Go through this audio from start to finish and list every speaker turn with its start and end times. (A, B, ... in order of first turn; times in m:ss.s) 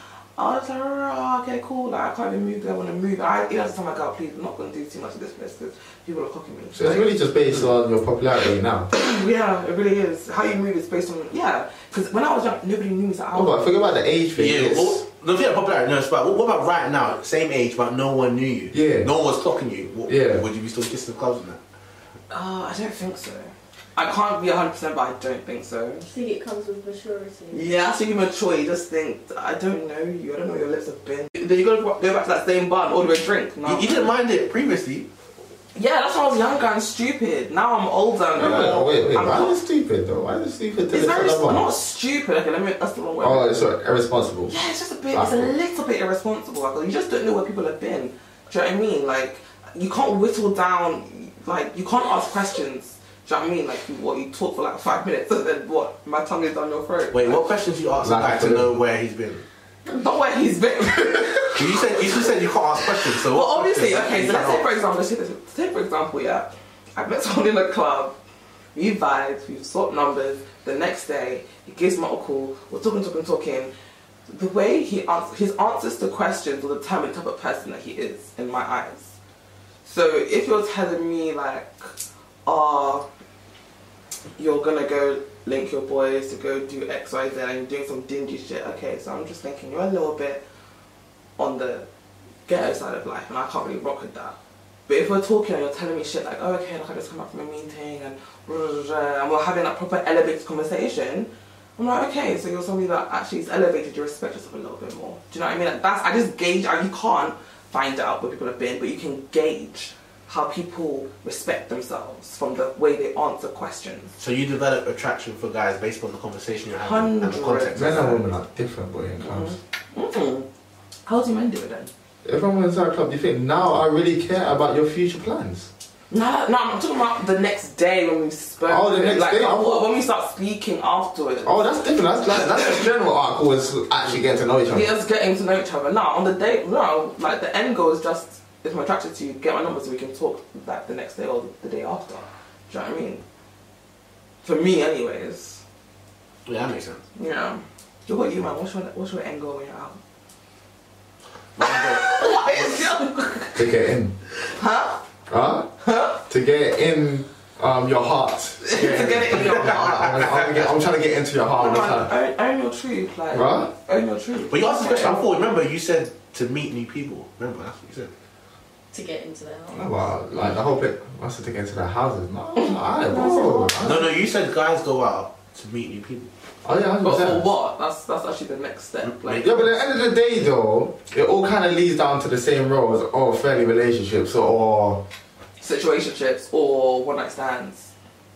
0:00.4-0:07.1 A
0:06.8-0:08.9 B
0:08.9-0:13.6 A
0:13.3-0:15.0 B
0:14.4-0:21.6 C
0:18.7-0:19.1 B
0:20.1-0:20.4 B
0:22.3-0:26.1 A
0:26.1-0:27.6 D
0:27.5-0:34.1 A
0:33.6-0:35.1 C
0:35.8-0:39.6 A
0:38.4-0:41.6 B
0:38.4-0:38.7 C
0:40.9-0:43.5 A
0:43.2-0:44.6 B
0:44.5-0:57.5 A
0:45.1-0:45.5 B
0:57.1-0:59.4 C
0:58.0-0:58.7 B
0:59.9-1:08.2 A
1:01.6-1:04.7 C
1:08.8-1:13.7 A
1:14.3-1:19.1 A
1:19.8-1:21.9 A
1:22.4-1:23.0 A
1:24.4-1:30.4 A
1:31.4-1:31.9 A
1:32.5-1:34.4 A
1:34.9-1:54.1 A
1:54.2-1:58.2 C
1:56.8-1:58.2 A
1:57.7-1:59.6 B
1:59.2-2:00.5 A
2:01.0-2:01.9 A
2:02.2-2:05.7 B
2:06.1-2:11.6 A
2:08.6-2:09.9 B
2:11.4-2:14.9 B
2:14.7-2:23.2 A
2:24.4-2:25.6 A
2:26.5-2:27.0 C
2:27.2-2:30.0 A
2:31.6-2:32.8 C
2:31.6-2:33.7 A
2:33.6-2:34.2 B
2:34.4-2:35.0 A
2:35.3-2:35.7 B
2:35.8-2:36.2 A
2:36.3-2:42.1 B
2:38.6-2:40.5 A
2:39.6-2:40.3 C
2:41.6-2:45.4 A
2:43.3-2:43.7 B
2:44.5-2:48.1 C
2:48.9-2:49.9 D
2:49.7-2:54.1 B
2:53.1-2:53.8 D
2:53.8-2:56.3 C
2:56.6-2:57.5 B
2:57.0-2:59.8 A
2:59.0-2:59.5 C
2:59.4-3:05.0 B
3:05.6-3:07.9 A